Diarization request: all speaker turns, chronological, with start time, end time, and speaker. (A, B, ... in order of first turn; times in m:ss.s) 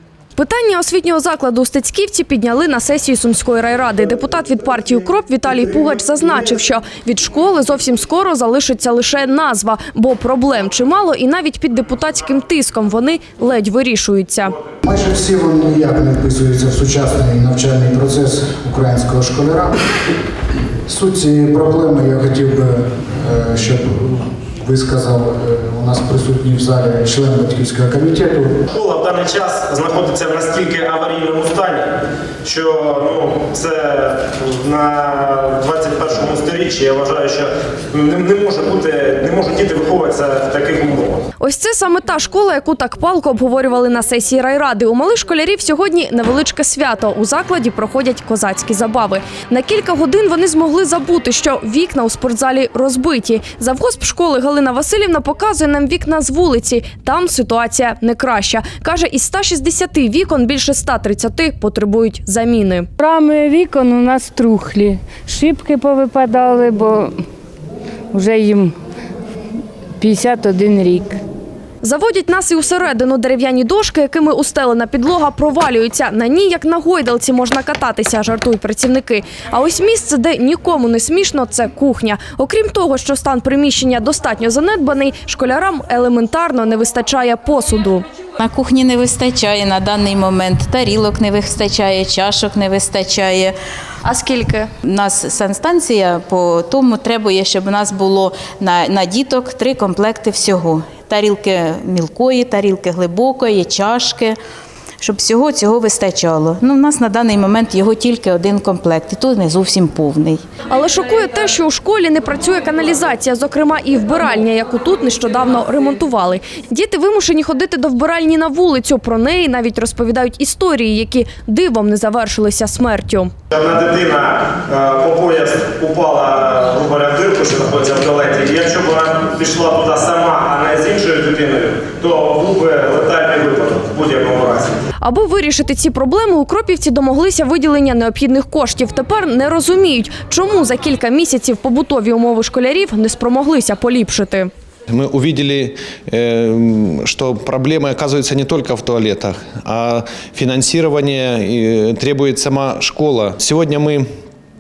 0:00.4-0:14.6 A
0:14.8-0:19.8 B
0:20.9-0:28.6 B
0:28.7-0:31.9 C
0:32.4-0:41.2 C
0:41.4-1:02.9 A
1:03.0-1:07.1 D
1:08.1-1:08.7 D
1:10.0-1:11.2 D
1:11.8-1:28.0 A
1:28.4-1:33.5 E
1:34.0-1:34.7 A
1:34.8-1:44.4 E
1:45.0-1:50.4 E
1:50.7-2:03.3 A
2:03.5-2:14.7 C
2:15.0-2:24.5 A
2:24.9-2:34.0 F